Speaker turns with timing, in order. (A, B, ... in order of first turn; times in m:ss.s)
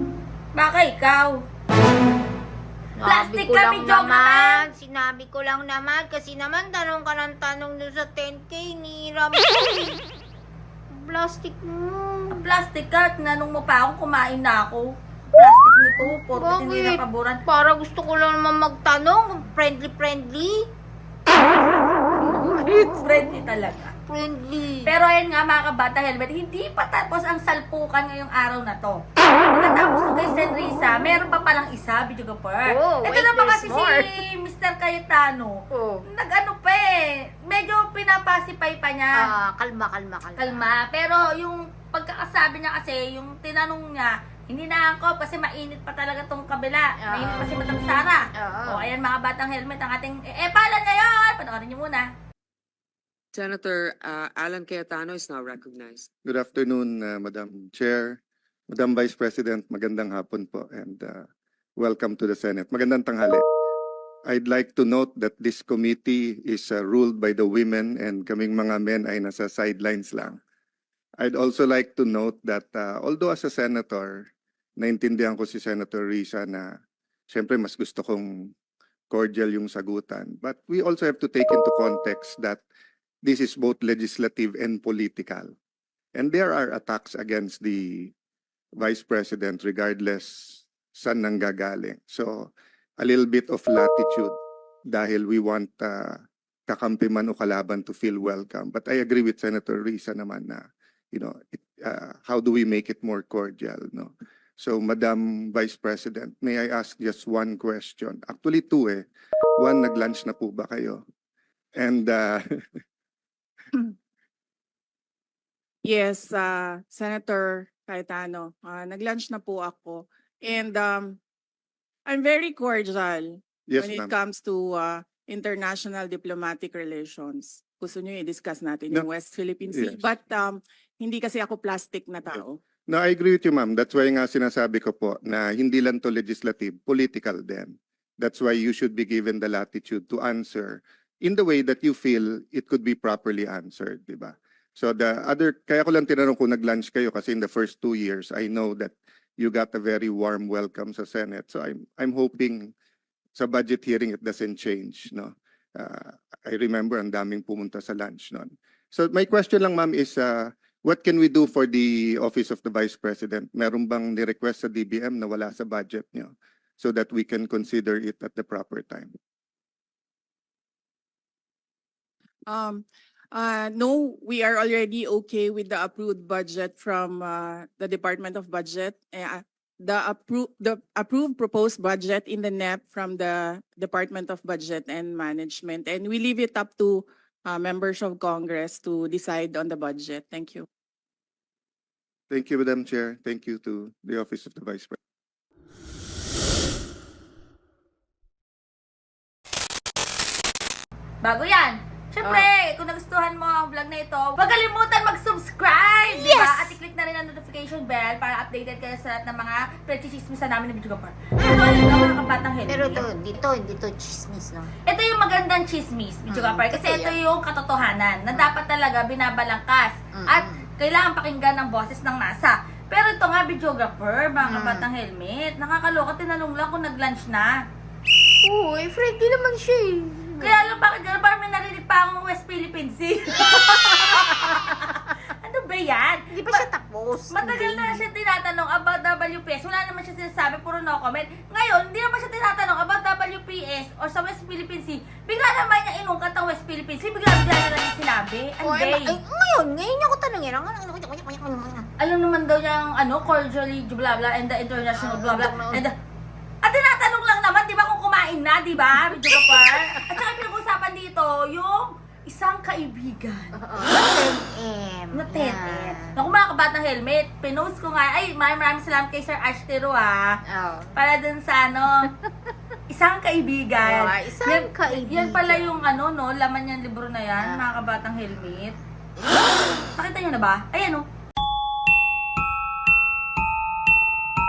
0:00.5-0:01.4 A
0:03.0-0:10.0 B
0:03.0-0:04.6 A
0:10.9-0:12.4 B
0:12.3-0:17.4 A
0:16.1-0:20.6 B
0:22.3-0:23.9 A
0:24.1-0:24.9 B
0:24.8-0:39.3 A
0:32.7-0:34.1 B
0:35.7-0:36.0 B
0:39.2-0:40.6 B
0:40.4-0:52.1 A
0:47.0-0:47.4 B
0:48.4-0:48.9 B
0:53.3-0:56.1 C
0:56.2-0:58.2 D
0:58.7-1:01.2 D
1:01.8-1:03.4 D
1:04.3-1:10.4 D
1:11.2-1:14.3 D
1:14.8-1:16.7 D
1:17.3-1:18.5 D
1:19.1-1:22.6 D
1:23.2-1:25.5 D
1:26.1-1:28.1 D
1:28.8-1:34.4 D
1:34.9-1:51.0 D
1:51.8-1:52.8 D
1:55.8-2:01.2 E
2:02.1-2:12.6 E
2:03.7-2:04.1 D
2:09.7-2:10.0 D
2:12.3-2:32.7 D
2:33.3-2:49.1 D
2:52.5-3:10.7 E
3:12.3-3:15.0 D
3:21.2-3:33.0 A
3:22.2-3:22.5 B
3:26.1-3:26.8 B
3:32.7-3:34.7 B
3:34.9-3:47.6 A
3:36.3-3:37.2 B
3:40.1-3:40.6 B
3:44.4-3:44.9 B
3:48.4-3:50.6 B
3:50.4-3:56.6 A
3:53.3-3:55.0 B
3:56.3-3:58.0 B
3:57.3-4:09.2 A
4:08.6-4:11.9 B
4:12.0-4:15.9 A
4:15.0-4:15.8 B
4:16.6-4:23.5 A
4:19.2-4:20.2 B
4:23.5-4:26.1 B
4:25.1-4:30.4 A
4:30.5-4:31.0 B
4:30.9-4:32.0 A
4:32.9-4:38.8 A
4:33.8-4:35.6 B
4:37.4-4:37.6 B
4:40.0-4:41.0 A